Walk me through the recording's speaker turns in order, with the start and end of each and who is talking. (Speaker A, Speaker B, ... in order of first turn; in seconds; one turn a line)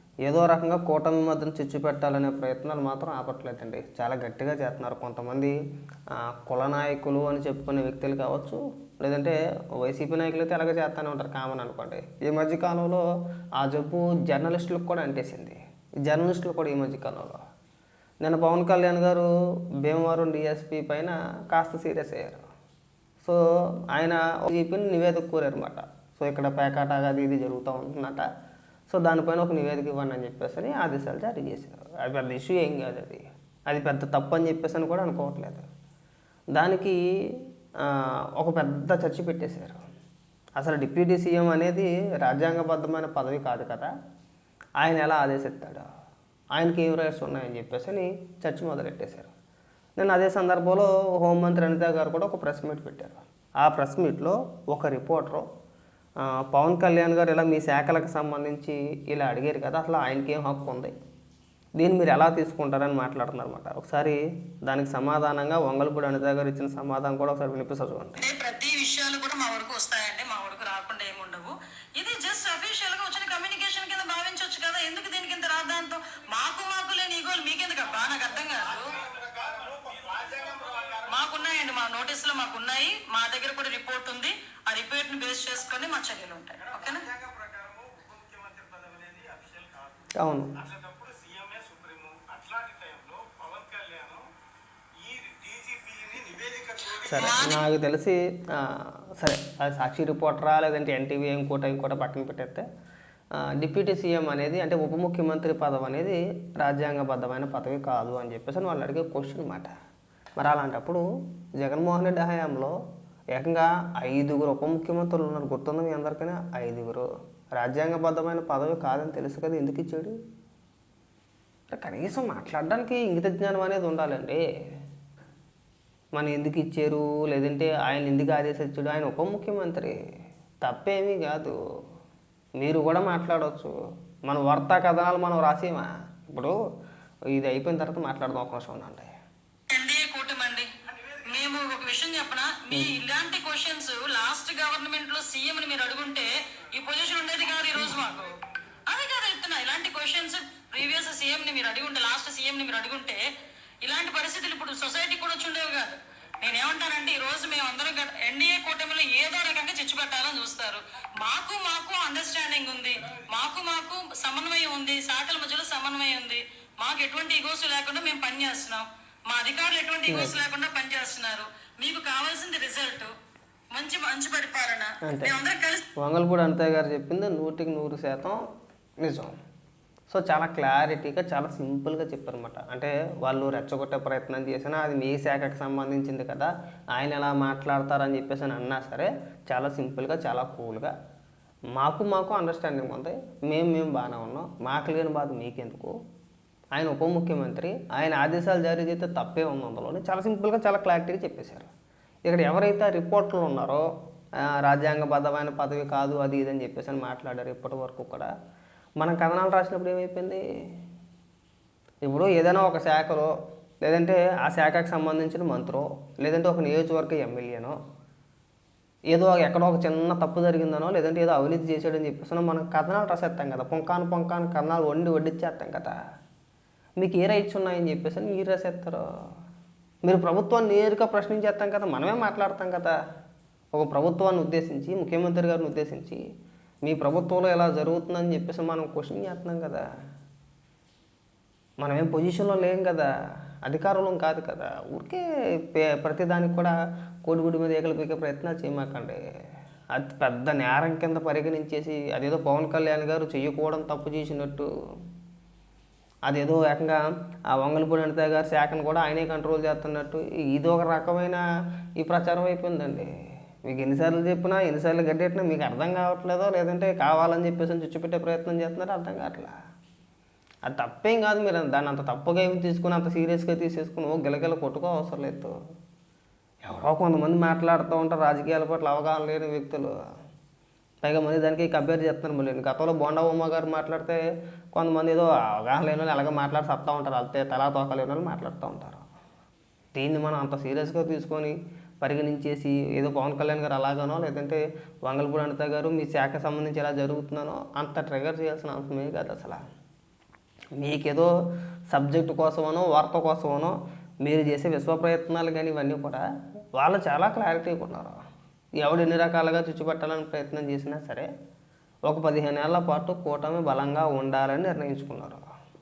Speaker A: 0.2-5.5
Speaker A: 6.1-13.0
Speaker A: 13.6-17.4
Speaker A: 18.2-19.3
Speaker A: 19.8-22.4
Speaker A: 23.9-28.2
Speaker A: 28.9-35.7
Speaker A: 36.5-37.0
Speaker A: 37.8-39.8
Speaker A: 40.5-43.9
Speaker A: 44.8-45.9
Speaker A: 46.5-49.3
Speaker A: 50.0-55.5
Speaker A: 56.3-60.9
Speaker A: 61.8-68.2
Speaker B: 68.2-79.0
Speaker C: 78.9-81.1
Speaker B: 81.0-87.1
Speaker C: 87.0-89.9
Speaker A: 90.2-90.5
Speaker C: 90.6-94.3
Speaker C: 95.0-97.4
Speaker A: 97.0-102.6
Speaker B: 97.1-97.6
Speaker A: 103.4-109.7
Speaker A: 110.4-111.0
Speaker A: 111.6-112.7
Speaker A: 113.3-120.1
Speaker A: 121.7-124.4
Speaker A: 126.1-130.0
Speaker A: 130.6-131.5
Speaker A: 132.6-133.7
Speaker A: 134.3-136.6
Speaker A: 137.3-139.1
Speaker B: 139.7-140.7
Speaker B: 141.3-153.2
Speaker B: 153.8-173.1
Speaker A: 170.1-170.3
Speaker B: 173.7-175.8
Speaker A: 175.0-175.3
Speaker A: 176.0-178.4
Speaker A: 179.0-179.4
Speaker A: 180.1-190.9
Speaker A: 191.8-195.9
Speaker A: 196.7-201.7
Speaker A: 202.2-203.8
Speaker A: 204.6-208.3
Speaker A: 209.0-210.4
Speaker A: 212.0-213.3
Speaker A: 213.8-217.8
Speaker A: 219.1-226.0
Speaker A: 227.0-229.0
Speaker A: 230.0-232.9
Speaker A: 233.7-236.2
Speaker A: 236.8-239.8
Speaker A: 241.8-243.1
Speaker A: 243.6-246.7
Speaker A: 247.2-249.2
Speaker A: 249.9-254.7
Speaker A: 256.3-257.0
Speaker A: 257.5-261.4
Speaker A: 262.0-263.1
Speaker A: 263.7-269.5
Speaker A: 270.6-275.5
Speaker A: 276.6-279.9
Speaker A: 281.0-284.2
Speaker A: 284.7-289.0
Speaker A: 289.9-299.6
Speaker A: 300.8-301.3
Speaker A: 301.9-306.2
Speaker A: 306.8-308.1
Speaker A: 308.8-311.3
Speaker A: 312.1-315.4